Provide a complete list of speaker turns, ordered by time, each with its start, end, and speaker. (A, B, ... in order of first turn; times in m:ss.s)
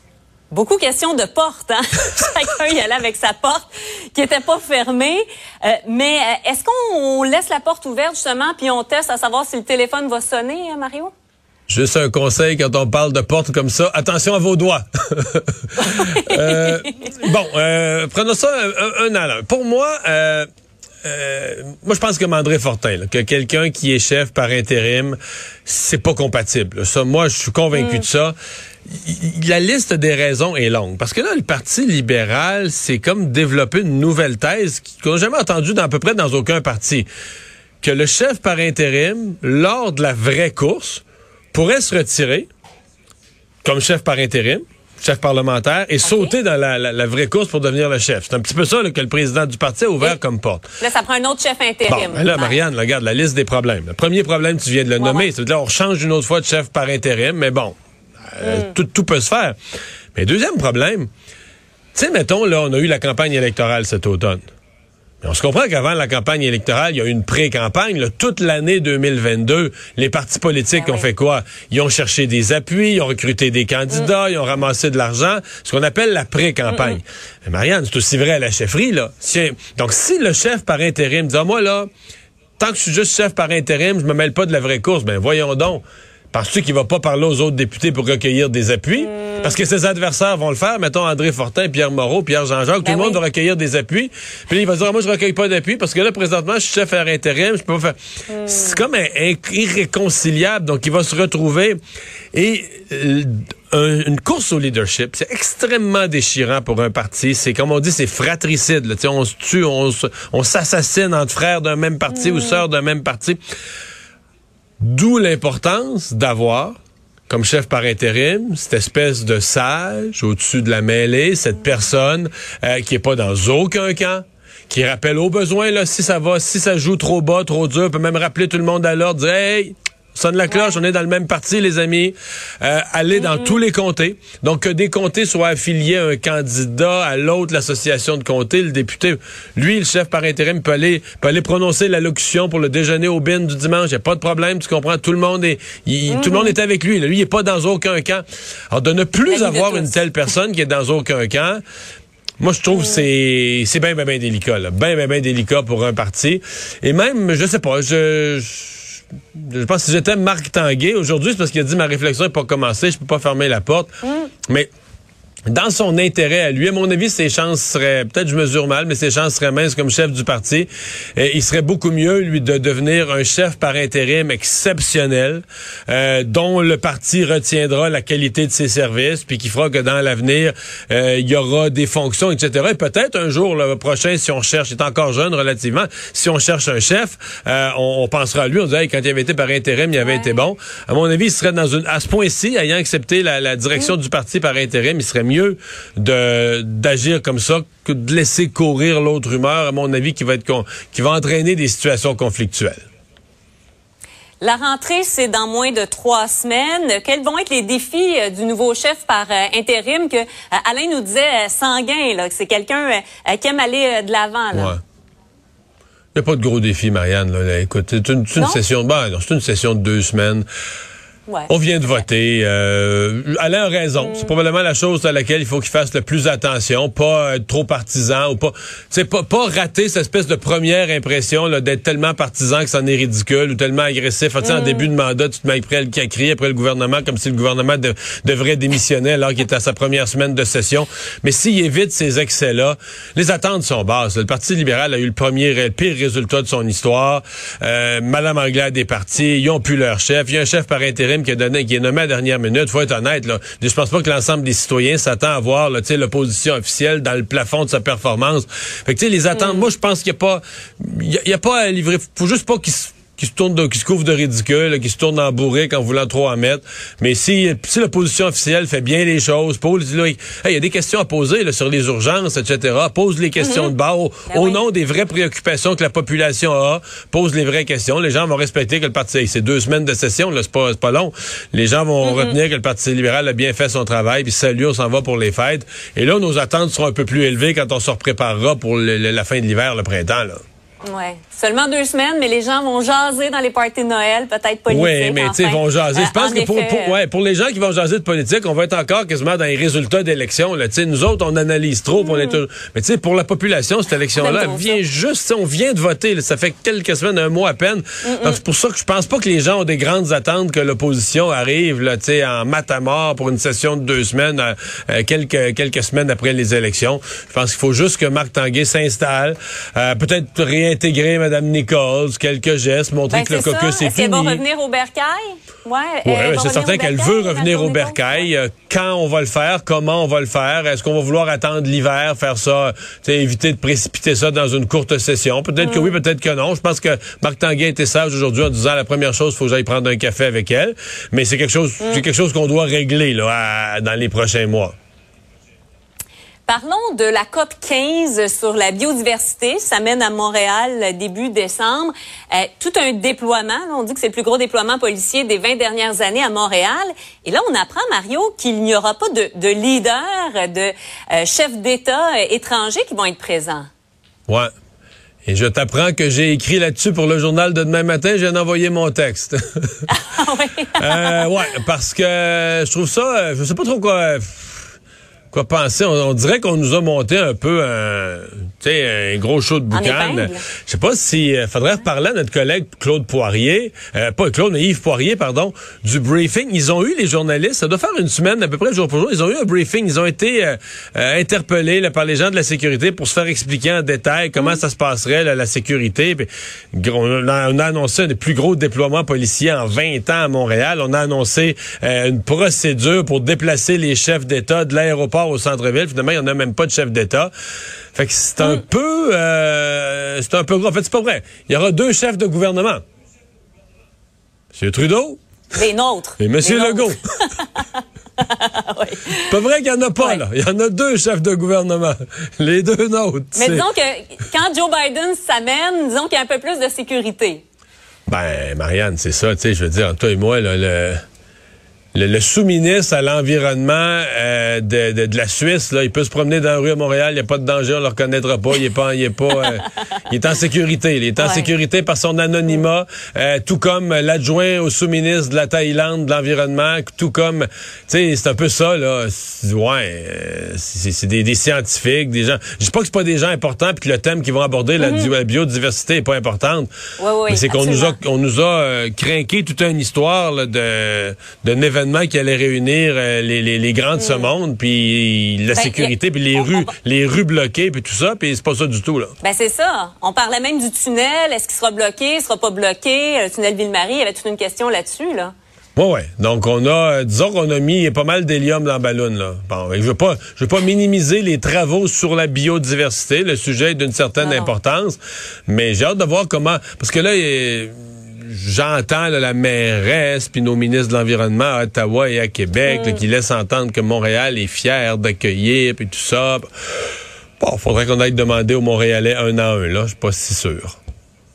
0:00.5-0:11.1 A
0:11.7-0:20.5 B
0:15.9-0:16.7 A
0:21.0-0:28.4 B
0:27.7-0:28.1 A
0:28.9-0:37.1 B
0:37.8-0:42.5 B
0:43.6-0:50.7 B
0:46.0-0:46.3 A
0:50.8-0:52.6 A
0:51.9-0:57.8 B
0:55.0-0:55.3 A
0:58.3-0:59.6 B
0:58.4-0:58.7 A
1:00.2-1:01.1 B
1:01.9-1:04.4 B
1:05.2-1:21.9 B
1:10.8-1:11.1 A
1:16.7-1:17.0 A
1:22.6-1:41.8 B
1:29.0-1:29.5 A
1:32.8-1:33.2 A
1:38.3-1:38.8 A
1:42.3-1:53.4 B
1:52.2-1:52.6 A
1:54.8-1:56.8 B
1:57.3-2:31.6 B
2:10.5-2:10.8 A
2:13.2-2:13.6 A
2:26.1-2:26.5 A
2:29.3-2:29.9 A
2:32.4-2:44.0 B
2:32.8-2:33.0 A
2:45.5-3:22.8 B
3:10.0-3:10.4 A
3:24.4-3:34.8 A
3:34.5-3:34.8 B
3:36.2-3:40.5 B
3:38.4-3:38.6 A
3:41.3-3:42.0 A
3:41.5-4:50.4 B
3:44.0-3:44.3 A
3:54.4-3:54.9 A
4:19.4-4:19.6 A
4:33.4-4:33.7 A
4:34.3-4:34.6 A
4:42.0-4:42.4 A
4:50.8-4:57.0 A
4:54.7-5:24.4 B
5:02.0-5:02.4 A
5:04.2-5:04.8 A
5:08.0-5:08.4 A
5:23.1-5:28.3 A
5:26.0-5:44.7 B
5:35.6-5:36.0 A
5:46.5-6:03.7 A
6:05.2-6:09.8 B
6:09.9-6:11.3 A
6:10.8-6:14.6 B
6:15.3-6:47.3 B
6:19.7-6:20.4 A
6:47.9-6:52.8 B
6:54.5-6:55.2 B
6:55.6-6:59.3 A
6:56.2-6:57.0 B
6:59.3-7:03.7 B
7:03.4-7:07.4 A
7:08.1-7:11.0 B
7:11.9-7:36.7 B
7:21.2-7:21.5 A
7:34.8-7:35.1 A
7:37.0-7:38.0 A
7:37.3-7:49.1 B
7:44.0-7:44.3 A
7:45.6-7:46.7 A
7:49.2-7:55.3 A
7:55.8-8:16.5 B
8:04.2-8:04.5 A
8:12.7-8:13.0 A
8:17.4-8:20.8 B